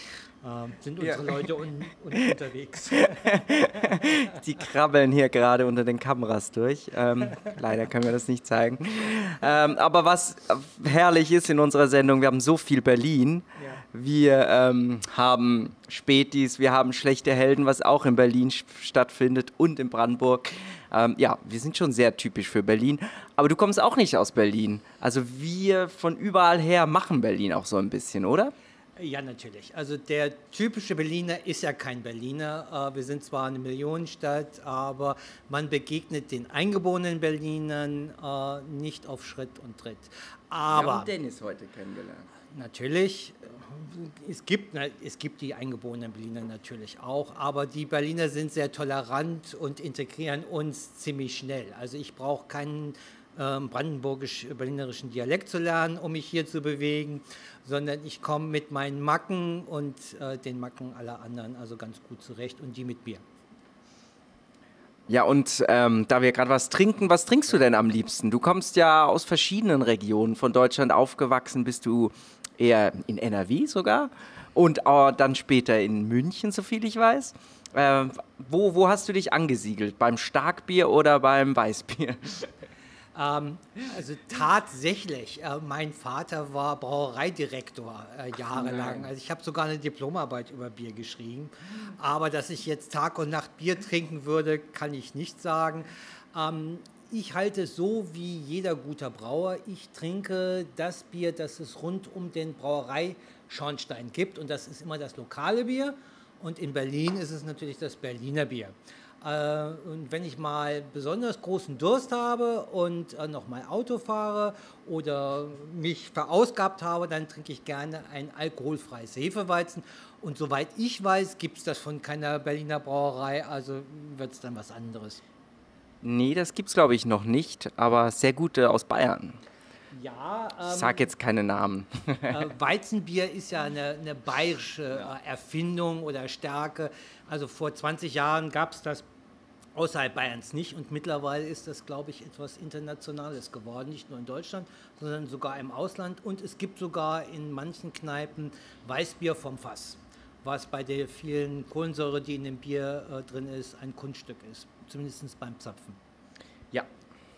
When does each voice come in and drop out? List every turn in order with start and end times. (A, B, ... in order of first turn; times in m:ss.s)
0:00.4-0:04.0 A
0:01.0-0:01.4 B
0:03.2-0:28.5 B
0:29.0-0:41.1 A
0:40.7-0:42.3 B
0:42.5-1:03.2 A
1:05.1-1:22.5 B
1:23.1-2:05.2 A
1:28.5-1:29.1 B
2:06.0-2:09.4 B
2:09.9-2:11.1 A
2:10.7-2:12.5 B
2:12.3-2:19.0 A
2:19.7-2:36.0 A